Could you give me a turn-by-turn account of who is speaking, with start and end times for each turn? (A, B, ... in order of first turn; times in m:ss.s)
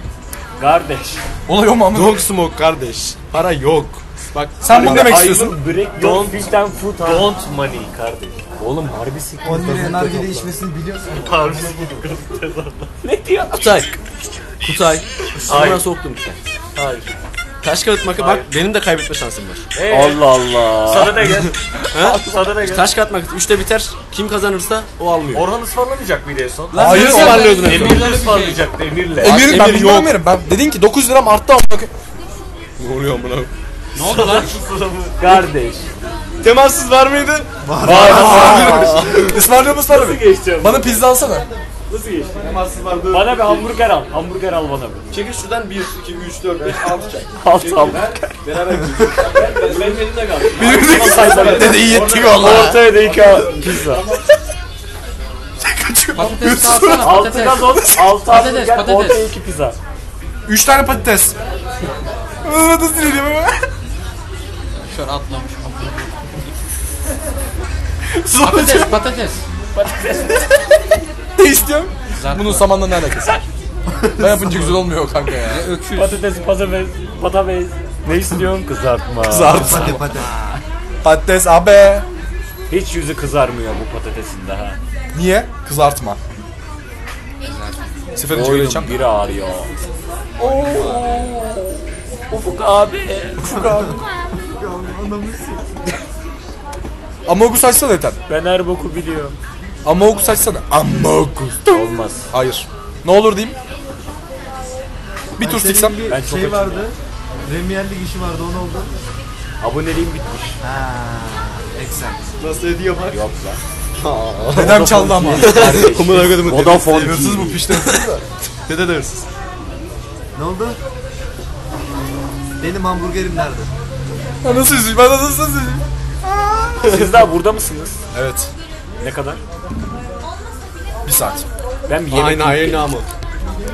0:00.6-0:01.2 A
0:01.5-0:02.2 B
0:01.9-0:05.2 C
0:04.6-0:05.6 B
0:04.7-0:07.3 A
0:06.0-0:08.4 D
0:08.6-0:10.6 A
0:09.4-0:11.6 E
0:11.2-0:12.9 D
0:13.0-0:13.8 A
0:13.5-0:13.9 C
0:14.6-0:16.4 C
0:15.4-0:15.9 D
0:16.8-0:17.2 D
0:17.6-0:19.6 C
0:18.1-0:18.5 D
0:19.7-0:22.9 D
0:19.9-0:22.4 A
0:21.9-0:25.5 C
0:25.3-0:29.6 D
0:26.7-0:27.8 B
0:26.7-0:28.6 F
0:26.8-0:28.1 C
0:29.2-0:31.9 B
0:29.2-0:30.2 C
0:32.8-0:33.5 C
0:34.0-0:34.6 F
0:34.0-0:35.2 D
0:35.2-0:35.9 A
0:36.4-0:37.6 C
0:37.6-0:38.9 E
0:37.8-0:39.0 A
0:37.8-0:41.5 B
0:38.7-0:39.4 C
0:39.9-0:41.0 A
0:41.9-0:42.3 A
0:42.4-0:43.7 C
0:43.1-0:45.1 A
0:45.1-0:52.9 C
0:47.4-0:48.3 A
0:49.2-0:54.1 A
0:50.6-0:52.8 B
0:51.9-0:52.4 D
0:55.6-0:58.2 B
0:56.1-0:59.3 F
0:57.0-0:59.8 A
1:00.5-1:01.4 B
1:02.4-1:03.7 B
1:04.9-1:06.5 F
1:08.1-1:09.1 B
1:08.3-1:09.4 F
1:09.7-1:10.5 A
1:11.4-1:13.4 B
1:12.1-1:12.7 F
1:13.9-1:14.6 E
1:14.2-1:15.8 B
1:15.4-1:16.2 F
1:15.9-1:20.0 A
1:19.3-1:20.1 B
1:19.5-1:20.3 E
1:19.8-1:20.6 F
1:21.0-1:22.1 B
1:22.7-1:24.8 A
1:25.1-1:26.2 B
1:27.4-1:27.9 F
1:28.2-1:29.0 B
1:28.3-1:29.7 A
1:30.4-1:33.6 A
1:30.4-1:31.1 E
1:33.4-1:34.0 B
1:33.4-1:35.9 E
1:37.3-1:38.2 B
1:38.3-1:39.4 A
1:39.8-1:43.6 B
1:41.7-1:42.3 A
1:45.4-1:46.0 B
1:45.4-1:47.0 E
1:46.1-1:46.9 A
1:47.5-1:49.0 E
1:49.6-1:50.6 A
1:50.6-1:52.2 E
1:52.4-1:53.2 C
1:53.1-1:53.6 A
1:54.0-1:59.3 C
1:54.5-1:58.2 B
1:54.5-1:57.6 A
2:00.4-2:00.8 E
2:02.6-2:03.7 E
2:04.4-2:06.9 B
2:06.8-2:07.3 C
2:06.8-2:08.0 A
2:08.1-2:08.5 B
2:09.0-2:09.4 A
2:11.0-2:11.5 B
2:11.9-2:12.9 A
2:12.1-2:13.1 C